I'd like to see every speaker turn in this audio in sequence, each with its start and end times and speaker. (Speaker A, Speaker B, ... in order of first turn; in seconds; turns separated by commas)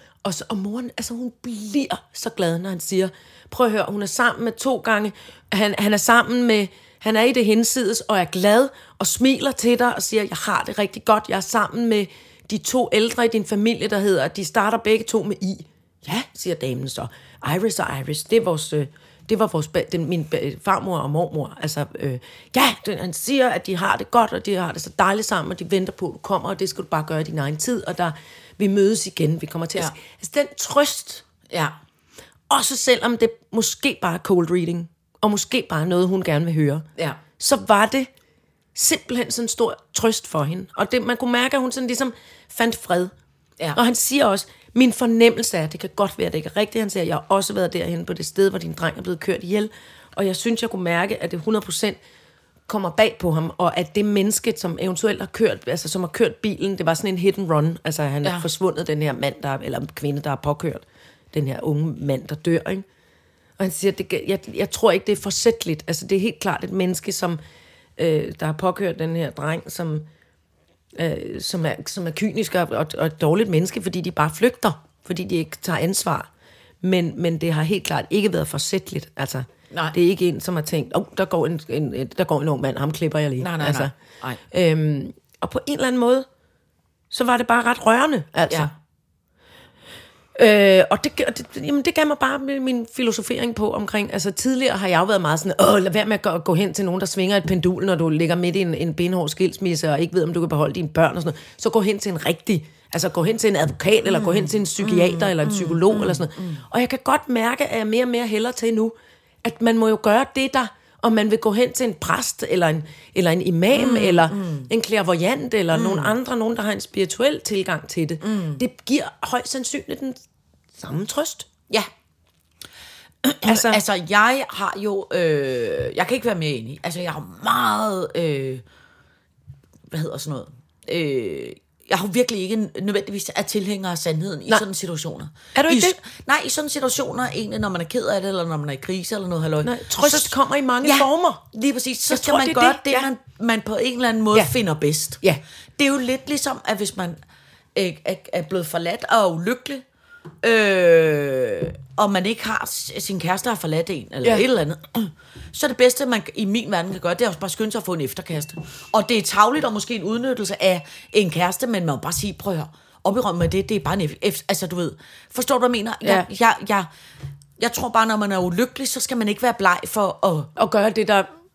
Speaker A: 0.2-31.2, Speaker B: 31.5-31.7, Speaker A: 32.5-36.8, Speaker A: 37.4-38.1, Speaker A: 38.7-43.1, Speaker A: 43.7-52.0, Speaker A: 52.7-62.8, Speaker A: 63.6-67.4, Speaker A: 68.0-70.0, Speaker A: 71.0-76.3, Speaker A: 76.8-84.0, Speaker B: 83.4-84.4, Speaker A: 84.5-86.2, Speaker A: 87.1-88.7, Speaker A: 90.3-120.2, Speaker B: 104.0-106.6, Speaker B: 113.7-114.7, Speaker B: 115.7-116.1, Speaker B: 118.2-118.6, Speaker A: 120.8-121.5, Speaker A: 123.2-123.8, Speaker B: 123.4-128.6, Speaker B: 129.9-145.2, Speaker A: 135.5-136.0, Speaker A: 139.6-141.4, Speaker A: 142.1-143.1, Speaker B: 145.8-147.2, Speaker B: 147.7-149.8, Speaker B: 150.4-166.9, Speaker B: 167.6-170.5, Speaker A: 170.6-171.3